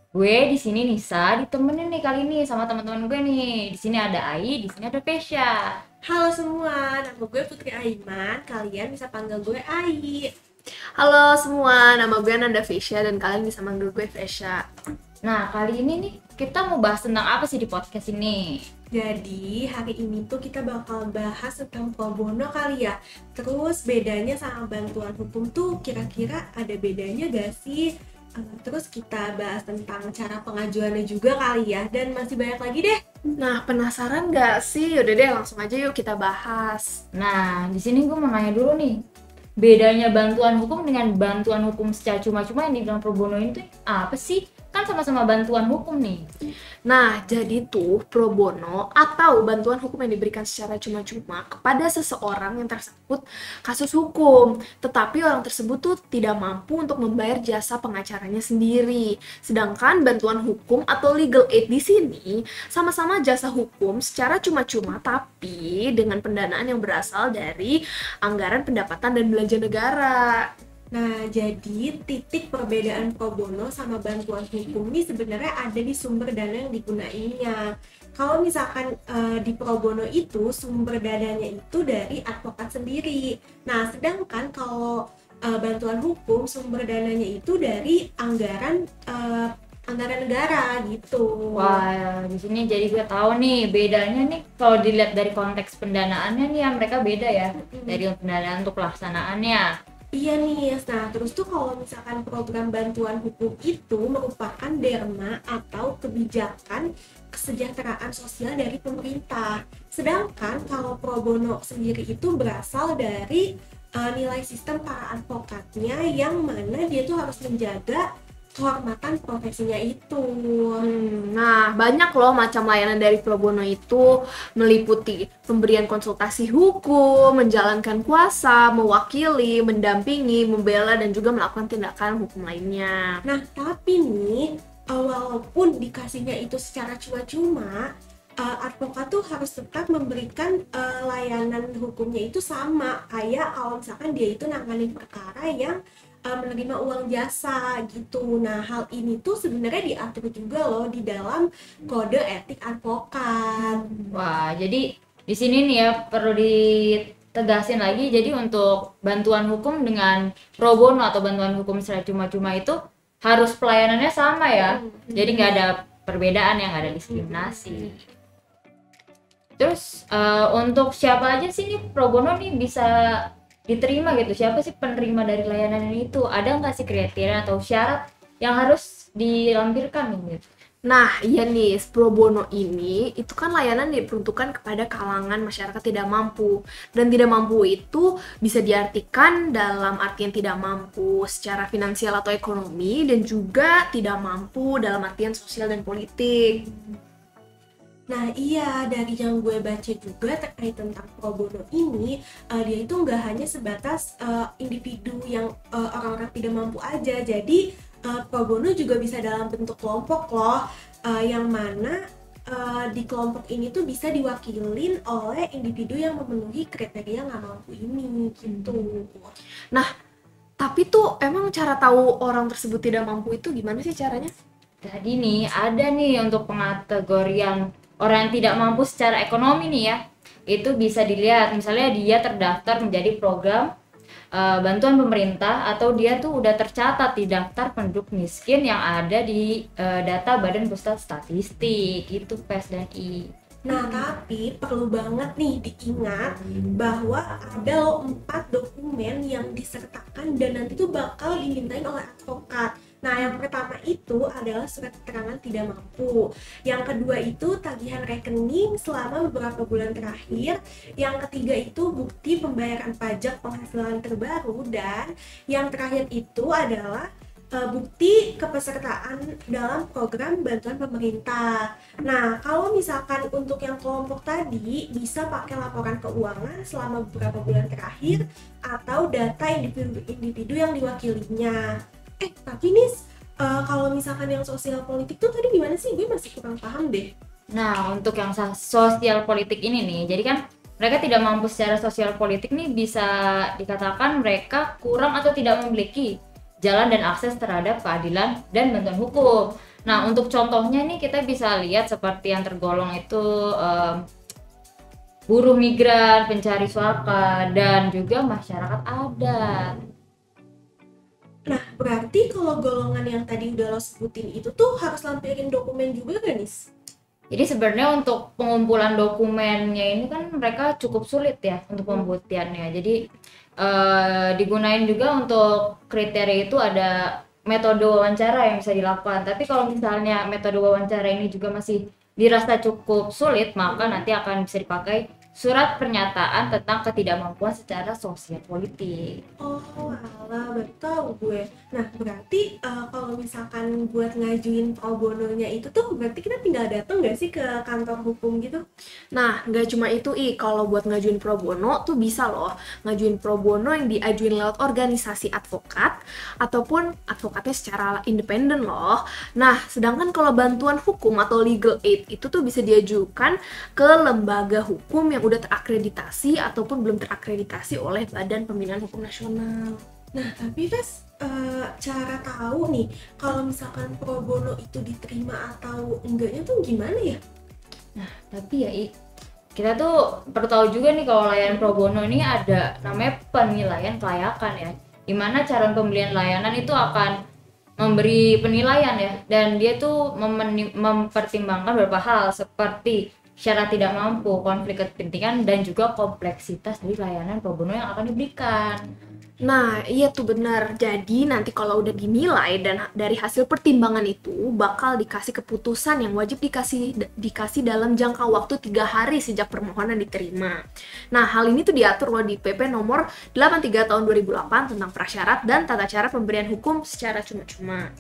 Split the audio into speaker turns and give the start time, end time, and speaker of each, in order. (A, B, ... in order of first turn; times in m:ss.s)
0:00.2-0:05.6 A
0:06.1-0:10.3 B
0:11.0-0:14.6 C
0:15.2-0:18.6 A
0:18.9-0:33.0 B
0:33.4-0:37.0 C
0:37.2-0:39.0 A
0:39.6-0:46.3 A
0:46.9-1:10.4 C
1:10.9-1:17.6 B
1:18.2-1:31.8 B
1:31.6-1:39.7 A
1:37.6-1:38.0 B
1:40.1-1:58.0 B
1:58.6-2:00.8 B
2:00.8-2:13.1 C
2:13.2-2:17.8 B
2:18.4-2:33.9 B
2:34.1-2:48.0 A
2:49.6-3:00.4 A
3:00.9-3:16.6 C
3:18.1-3:32.0 B
3:32.5-3:39.3 B
3:40.6-3:44.3 C
3:44.8-3:50.0 A
3:50.5-3:53.7 A
3:54.4-4:03.3 A
4:03.7-4:47.1 B
4:03.7-4:04.0 C
4:47.5-4:56.1 A
4:56.6-5:04.0 A
5:05.3-5:09.8 A
5:11.5-5:16.7 B
5:17.3-5:22.9 A
5:23.6-5:27.0 A
5:27.5-5:39.2 A
5:39.4-5:48.6 B
5:49.2-6:09.8 C
6:10.1-6:17.2 B
6:18.0-6:18.9 A
6:19.6-6:27.1 A
6:27.8-6:38.8 A
6:39.4-6:50.6 C
6:51.1-6:57.9 C